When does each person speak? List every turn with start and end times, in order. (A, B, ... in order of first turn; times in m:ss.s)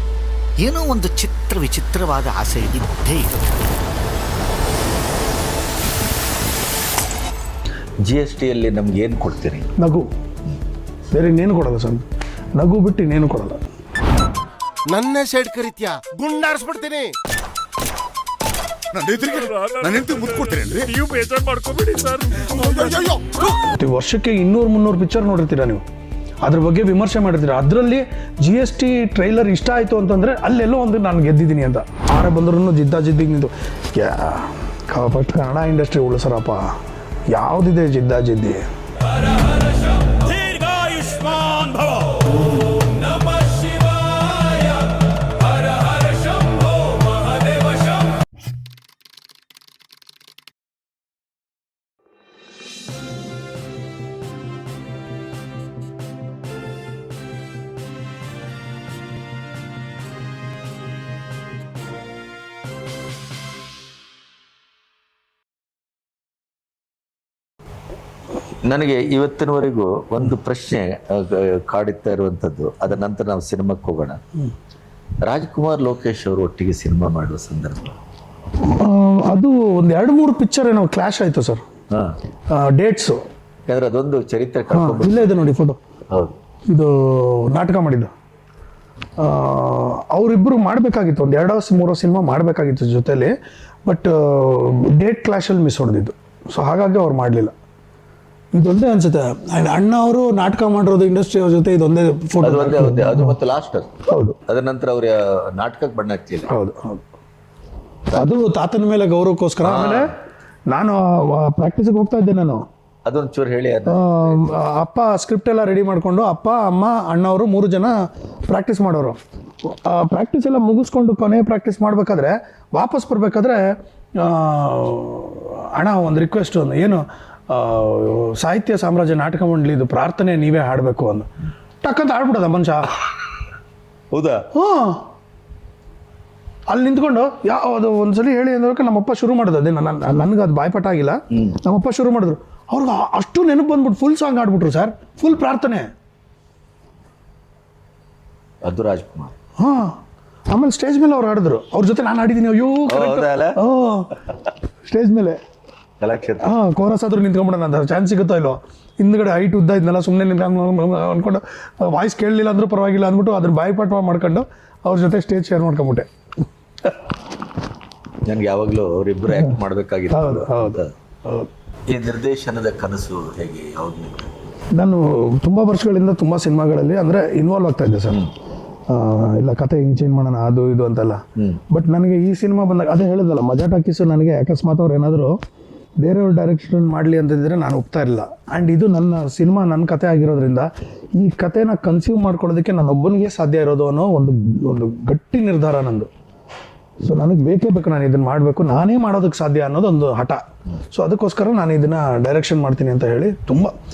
0:00.6-0:03.6 A
0:08.0-0:09.7 B
0:09.8-0:10.1 C
0:11.1-0:12.0 C
0:12.6-0:13.6 C
0:14.9-0:17.2 D
0:18.9-0:21.0 D
0:19.5-0:22.7 E
0:22.5-0:23.5 D
0:23.6-0:25.8 C
0:26.4-0:36.7 C
0:37.3-0:38.6 C
0:39.5-0:44.8 E
0:45.5-0:47.8 E
1:08.6-1:14.2 B
1:15.2-1:18.0 B
1:18.6-1:21.6 C
1:21.9-1:22.2 B
1:22.5-1:23.2 C
1:23.7-1:25.4 B
1:24.7-1:25.8 C
1:26.1-1:26.4 B
1:26.7-1:28.1 C
1:29.2-1:37.5 C
1:38.5-1:43.4 C
1:42.4-1:43.9 B
1:44.1-1:44.4 C
1:44.5-1:46.5 B
1:46.5-1:47.0 C
1:48.1-1:50.2 C
1:49.6-1:50.1 B
1:50.7-1:52.7 C
1:53.0-1:54.6 B
1:53.9-2:11.3 C
2:11.8-2:12.9 C
2:14.1-2:14.5 B
2:14.5-2:15.0 C
2:16.7-2:25.9 C
2:28.6-2:29.3 B
2:29.6-2:34.2 C
2:32.9-2:33.6 B
2:34.8-2:35.4 C
2:36.0-2:36.5 B
2:36.4-2:46.1 C
2:48.2-2:50.9 B
2:50.1-2:51.5 C
2:51.9-2:54.3 B
2:54.7-2:58.3 C
2:58.9-3:05.4 C
3:06.0-3:16.1 C
3:17.0-3:23.7 C